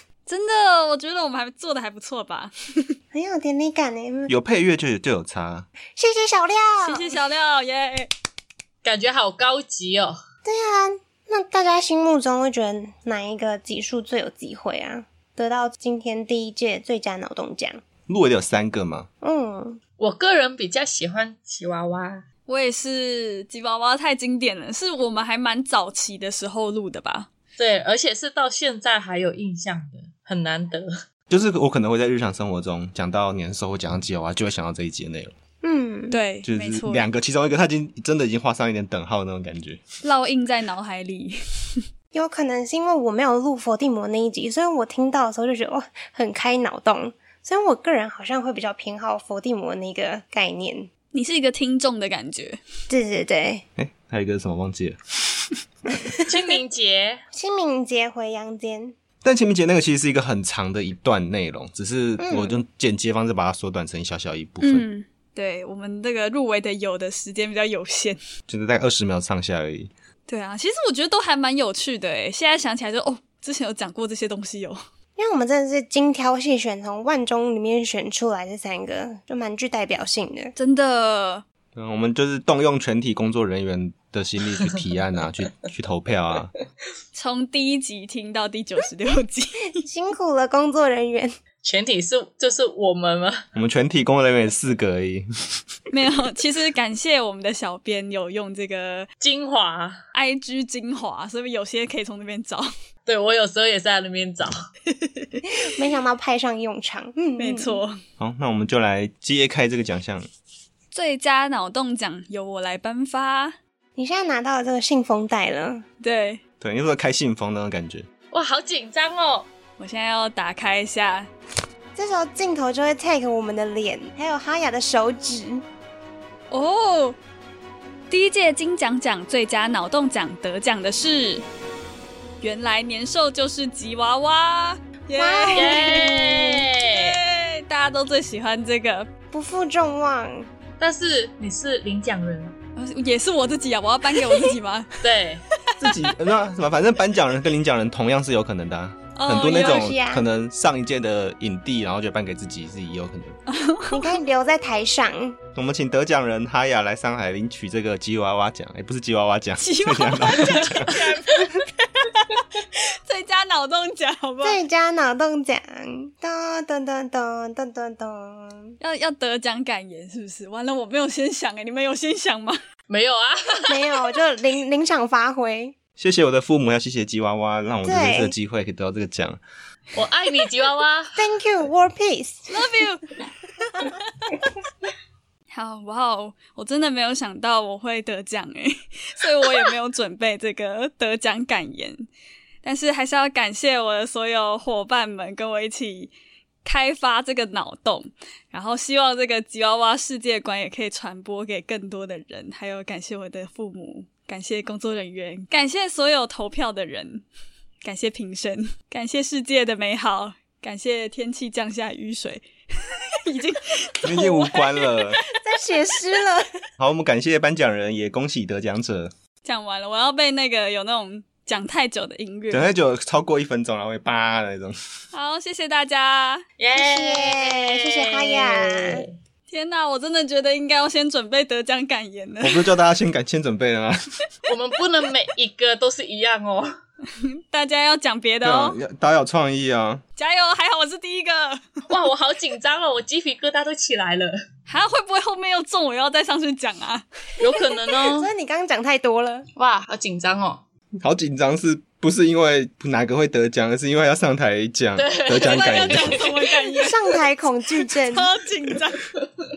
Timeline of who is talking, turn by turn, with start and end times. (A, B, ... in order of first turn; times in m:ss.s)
0:00.3-0:02.9 A
0:03.1-0:04.3 B
0:04.3-0:05.7 C
0:06.0-0:07.1 B
0:06.8-0:08.1 A
0:08.8-0:10.2 D
0:10.4-0:17.8 B
0:18.1-0:19.1 C
0:19.2-0:19.8 B
0:20.0-0:22.2 D
0:22.5-0:27.3 A
0:27.6-0:30.9 D
0:31.3-0:35.3 C
0:35.6-0:36.2 B
0:36.1-0:37.0 A
0:36.4-0:39.8 C
0:40.0-0:41.8 A
0:42.1-0:50.9 B
0:51.1-0:52.6 A
0:52.9-0:53.6 B
0:53.8-0:55.5 C
0:56.2-0:57.2 D
0:57.3-0:58.9 B
0:59.2-1:04.8 C
1:02.2-1:02.6 B
1:04.6-1:08.2 A
1:08.5-1:09.9 C
1:10.3-1:14.8 A
1:15.2-1:20.5 B
1:20.6-1:21.4 A
1:21.7-1:26.5 C
1:27.1-1:29.8 A
1:29.8-1:31.4 B
1:31.6-1:33.4 D
1:33.5-1:35.2 C
1:35.9-1:39.1 A
1:39.2-1:40.0 D
1:40.1-1:42.7 A
1:43.0-1:44.5 D
1:44.9-1:45.4 A
1:45.5-1:47.8 B
1:47.4-1:48.0 A
1:48.2-1:50.3 C
1:50.9-1:53.6 A
1:54.0-1:55.8 B
1:56.0-1:56.4 A
1:56.6-1:58.0 C
1:58.3-1:59.5 D
1:59.8-2:01.3 A
2:01.9-2:05.6 B
2:06.5-2:07.2 A
2:08.1-2:11.4 A
2:12.4-2:19.1 A
2:15.1-2:16.0 B
2:15.5-2:17.2 D
2:19.3-2:20.5 B
2:20.8-2:22.5 D
2:22.8-2:24.9 A
2:25.0-2:25.4 D
2:25.6-2:26.1 A
2:25.8-2:33.4 C
2:29.1-2:29.9 A
2:29.3-2:30.2 B
2:33.5-2:34.1 A
2:33.9-2:35.4 B
2:35.5-2:41.0 C
2:39.6-2:44.6 A
2:40.9-2:41.3 D
2:44.4-2:48.8 B
2:48.8-2:52.6 A
2:52.9-2:53.8 D
2:53.7-2:55.8 B
2:56.0-2:59.4 C
2:57.8-2:58.3 B
2:59.9-3:01.2 D
3:01.2-3:02.5 B
3:02.5-3:03.2 A
3:05.5-3:12.0 A
3:12.6-3:16.1 A
3:16.6-3:27.2 A
3:27.8-3:35.1 A
3:34.0-3:35.2 C
3:35.4-3:36.5 B
3:36.8-3:39.1 C
3:39.4-3:42.7 A
3:42.5-3:44.8 C
3:45.1-3:46.4 A
3:46.6-3:49.1 D
3:46.7-3:49.0 B
3:49.5-3:52.7 A
3:52.4-3:54.0 C
3:54.5-3:56.7 D
3:57.1-3:58.8 A
3:58.4-4:00.0 C
4:00.2-4:01.7 A
4:01.9-4:04.3 D
4:04.7-4:07.0 A
4:07.4-4:08.3 D
4:08.0-4:09.4 B
4:09.6-4:10.6 D
4:11.0-4:16.2 C
4:15.0-4:16.4 D
4:15.4-4:17.0 A
4:16.8-4:18.3 B
4:17.8-4:19.1 A